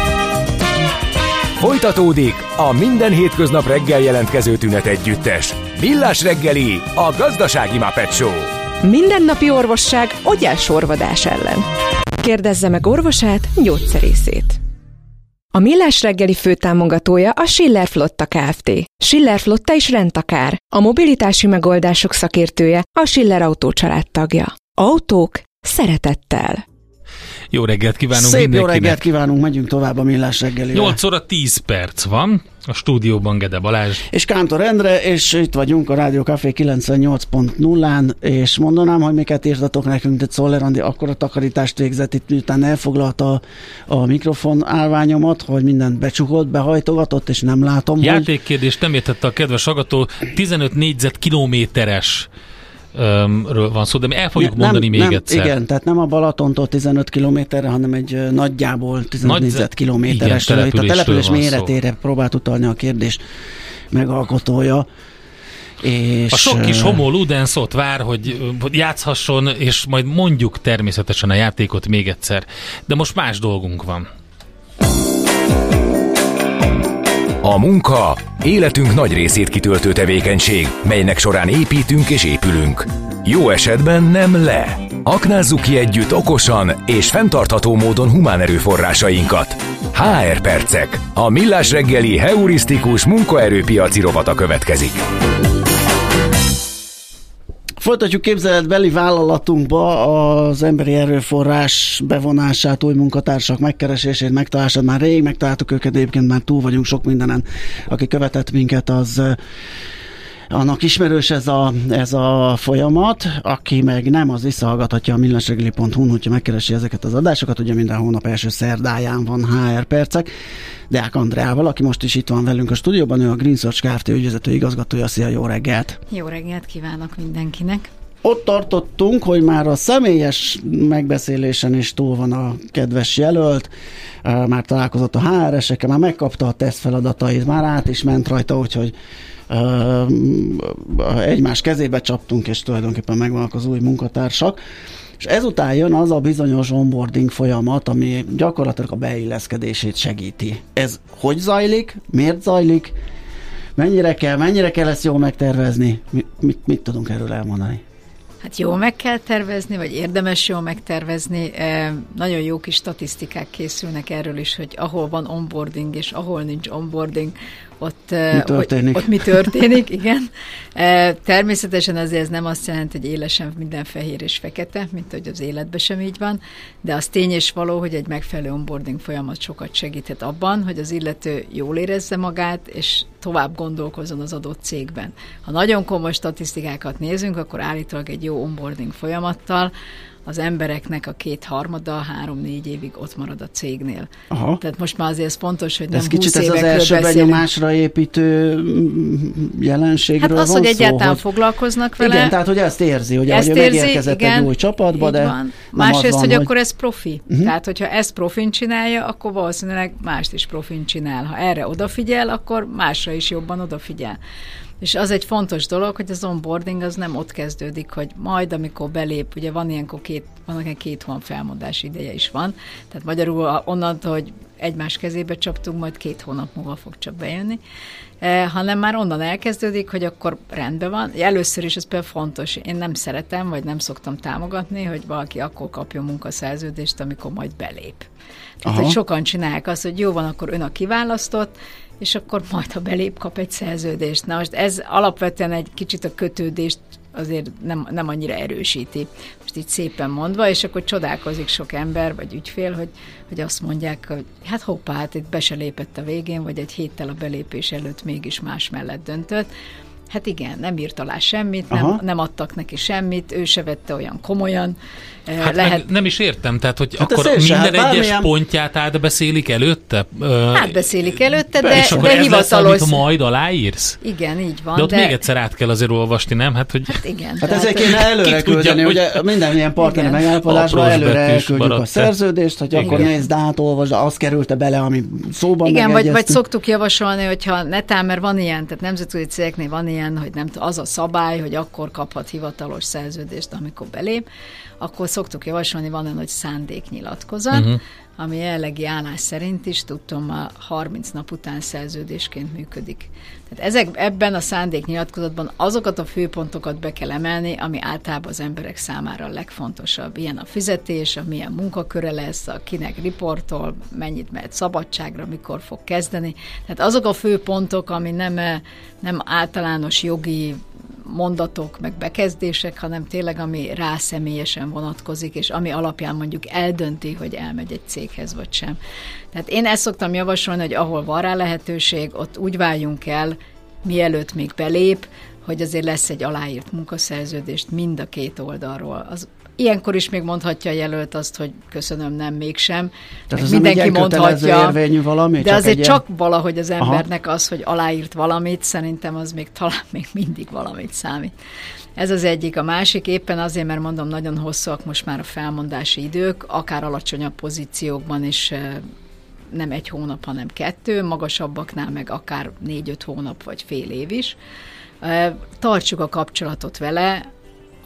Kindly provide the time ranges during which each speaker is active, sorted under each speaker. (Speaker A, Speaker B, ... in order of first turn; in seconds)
Speaker A: 1.6-8.6, 77.4-95.0
Speaker B: 8.8-11.7, 12.2-14.6, 15.5-26.6
Speaker C: 27.5-29.0, 30.7-34.0, 48.0-52.3, 52.9-55.5, 59.2-61.7, 66.3-74.1, 265.4-270.8, 271.7-274.0, 274.8-277.0, 277.9-279.2, 280.4-282.1, 282.7-283.1, 297.5-297.8
Speaker D: 28.1-31.0, 34.1-48.3, 54.4-63.2, 63.9-64.9, 65.8-67.0, 97.8-109.4, 110.5-120.3, 120.9-126.0, 128.2-133.7, 134.2-138.9, 139.5-144.6, 145.2-153.0, 153.8-157.8, 168.3-169.5, 194.3-194.6, 195.9-201.2, 202.0-206.5, 238.7-239.0, 261.7-262.0, 267.0-268.3, 271.6-272.1, 277.4-286.4, 343.3-346.0
Speaker E: 126.1-127.9, 158.4-189.7, 190.2-194.1, 194.6-197.4, 200.2-202.4, 203.3-214.2, 214.8-227.6, 228.2-238.1, 238.6-259.5, 260.1-264.8, 265.3-265.8, 270.5-273.0, 274.0-275.2, 276.9-278.0, 279.8-280.2, 282.9-283.1, 285.6-294.2, 294.8-328.8, 329.3-344.8, 345.4-351.3, 352.0-358.9, 359.5-364.4, 365.0-367.3